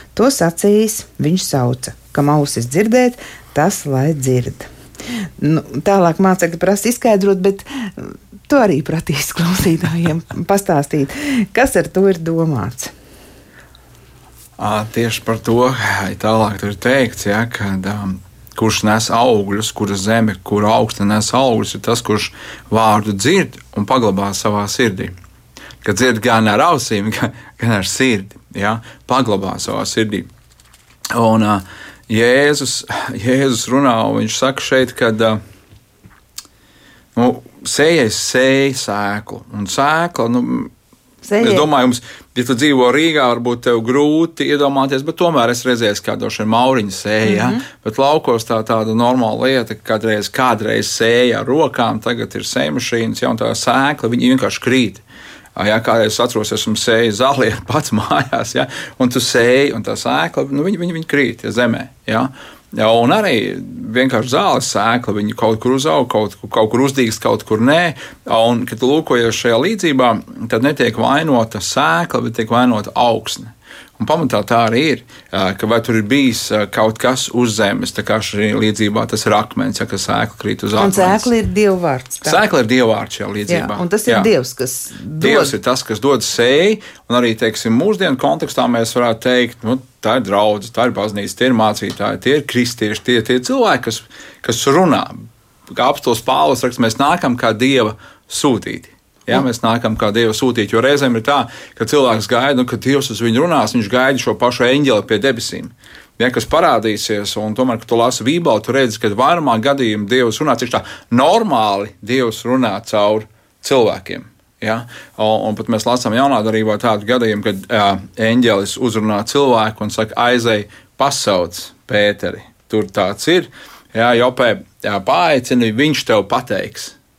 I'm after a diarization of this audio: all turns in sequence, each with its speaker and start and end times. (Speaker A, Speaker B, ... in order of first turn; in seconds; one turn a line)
Speaker A: 0.1-4.7
Speaker A: 5.4-12.9
Speaker B: 14.6-25.1
Speaker B: 25.8-30.3
Speaker B: 31.1-35.4
Speaker B: 37.1-40.7
Speaker A: 41.2-41.7
Speaker B: 41.4-55.0
Speaker A: 47.2-47.6
Speaker B: 55.5-81.3
Speaker A: 80.8-82.4
Speaker B: 82.2-84.3
Speaker A: 83.5-85.5
Speaker B: 85.2-95.1
Speaker B: 95.7-127.0